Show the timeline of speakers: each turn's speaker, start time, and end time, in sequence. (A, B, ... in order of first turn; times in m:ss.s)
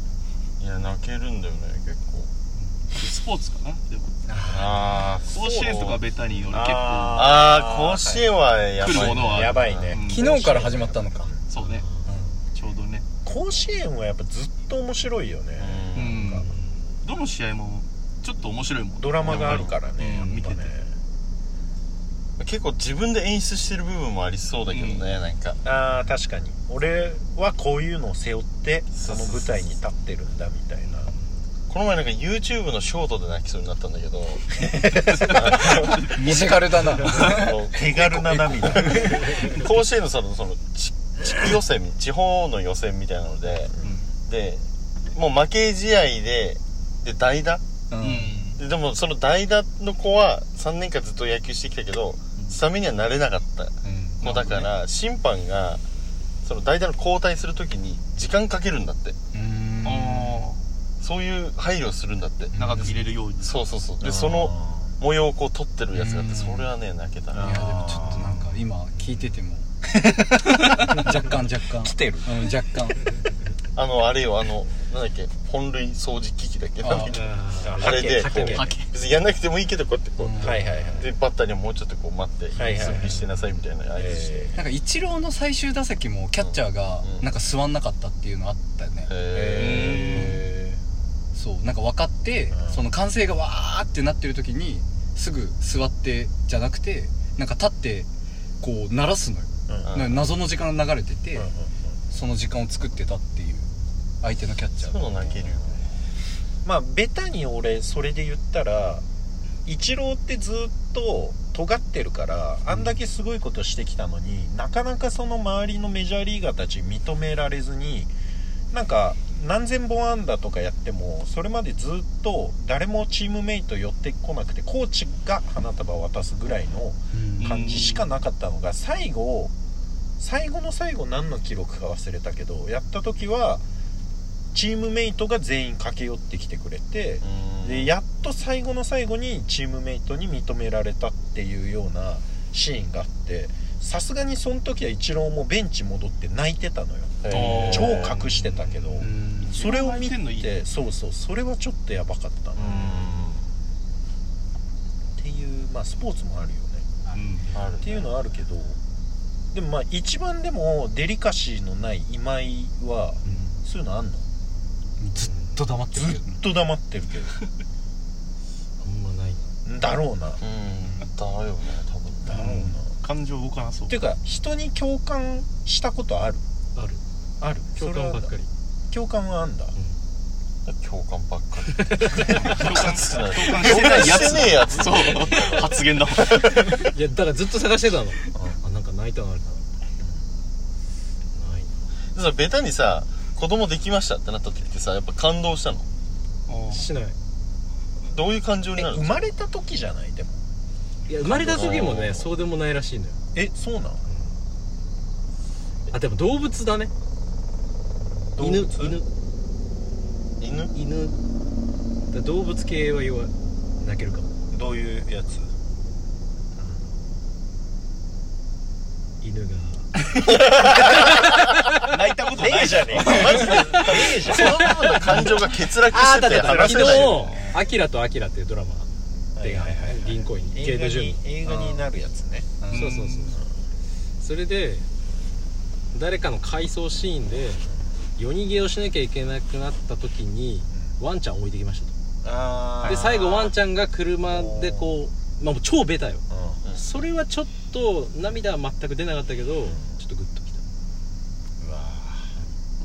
0:00.6-0:02.3 A
0:02.9-0:04.2 B
0:04.3-0:04.9 C
0:04.5-0:06.0 A
0:05.3-0:07.4 B
0:05.4-0:06.0 D
0:06.5-0:08.3 D
0:07.2-0:09.9 A
0:08.8-0:10.3 B
0:08.8-0:11.4 D
0:10.0-0:11.3 C
0:11.5-0:11.8 B
0:11.6-0:12.2 E
0:12.5-0:13.0 B
0:13.2-0:16.4 D
0:15.6-0:16.4 A
0:15.9-0:16.5 B
0:16.4-0:16.9 E
0:17.0-0:20.8 B
0:19.0-0:20.9 D
0:19.2-0:19.7 A
0:22.4-0:25.6 A
0:24.7-0:25.2 B
0:25.6-0:31.1 D
0:28.9-0:29.6 A
0:31.7-0:34.6 A
0:34.7-0:35.5 D
0:35.2-0:36.3 A
0:35.8-0:36.4 B
0:35.8-0:39.4 C
0:37.0-0:38.3 A
0:37.7-0:39.2 D
0:39.3-0:43.7 A
0:43.8-0:44.1 B
0:44.2-0:47.6 A
0:47.9-0:48.5 C
0:48.0-0:48.6 B
0:48.6-0:55.8 A
0:53.8-0:54.6 C
0:54.2-0:54.7 B
0:56.4-0:59.2 A
0:59.3-1:00.5 C
0:59.8-1:00.6 B
1:01.0-1:02.5 A
1:02.5-1:03.0 C
1:02.6-1:03.6 B
1:03.4-1:07.6 A
1:04.0-1:04.9 D
1:05.9-1:06.7 C
1:07.3-1:08.4 D
1:07.4-1:09.7 C
1:10.0-1:11.2 D
1:10.6-1:13.0 C
1:11.8-1:12.3 D
1:13.7-1:24.6 A
1:16.8-1:17.2 C
1:17.0-1:18.8 E
1:17.6-1:18.6 D
1:18.5-1:18.9 C
1:20.2-1:20.8 C
1:20.4-1:21.1 D
1:22.5-1:23.2 D
1:23.9-1:24.6 D
1:24.6-1:29.1 C
1:26.4-1:27.3 A
1:29.0-1:30.4 A
1:29.3-1:30.8 D
1:29.5-1:30.4 B
1:31.3-1:38.1 C
1:32.5-1:32.8 D
1:38.6-1:41.5 C
1:39.7-1:39.9 D
1:39.8-1:40.2 A
1:41.3-1:41.7 D
1:42.1-1:43.7 C
1:44.2-1:45.5 C
1:44.8-1:45.9 A
1:46.6-1:49.0 D
1:49.6-1:58.1 D
1:58.7-2:09.5 D
2:07.1-2:07.5 C
2:07.4-2:08.1 B
2:10.2-2:13.6 D
2:14.5-2:33.0 D
2:17.2-2:17.9 A
2:27.2-2:28.6 A
2:27.3-2:28.1 B
2:29.0-2:29.6 C
2:29.4-2:30.6 B
2:32.6-2:33.3 B
2:32.6-2:33.5 A
2:35.2-2:36.9 D
2:37.1-2:37.8 E
2:37.1-2:37.6 B
2:37.5-2:37.9 A
2:37.8-2:38.8 D
2:39.5-2:44.2 D
2:43.2-2:43.6 E
2:45.0-2:46.4 C
2:45.2-2:45.6 E
2:45.9-2:47.4 D
2:48.8-2:49.5 E
2:49.6-2:50.4 D
2:50.4-2:52.4 A
2:52.2-2:52.9 D
2:52.3-2:54.0 B
2:53.9-2:56.4 D
2:56.7-2:57.0 E
2:57.4-2:58.3 D
2:57.8-2:58.5 E
2:58.9-2:59.7 D
3:00.6-3:06.6 A
3:01.8-3:02.4 E
3:02.2-3:06.7 B
3:03.6-3:05.1 D
3:06.2-3:09.6 E
3:11.3-3:11.7 E
3:12.1-3:15.9 A
3:16.5-3:16.9 B
3:16.7-3:17.2 E
3:18.1-3:19.2 A
3:18.8-3:20.4 D
3:21.1-3:23.2 E
3:21.2-3:22.3 A
3:21.4-3:21.8 D
3:23.3-3:24.0 D
3:24.1-3:24.3 E
3:25.9-3:26.9 E
3:28.4-3:29.0 D
3:28.4-3:29.1 E
3:30.4-3:30.7 A
3:30.7-3:31.1 E
3:32.1-3:34.3 E
3:34.5-3:35.5 D
3:39.2-3:41.8 E
3:40.3-3:41.2 D
3:41.8-3:44.3 B
3:42.3-3:44.8 D
3:43.9-3:47.3 A
3:44.4-3:51.2 E
3:46.3-3:47.3 D
3:47.1-3:47.6 B
3:49.4-3:52.6 D
3:52.6-3:52.9 C
3:52.7-3:53.4 B
3:52.7-3:53.4 E
3:54.2-3:54.8 E
3:55.9-4:01.9 E
4:02.2-4:03.5 D
4:02.8-4:10.6 E
4:04.3-4:04.9 D
4:06.3-4:06.6 D
4:11.6-4:12.4 D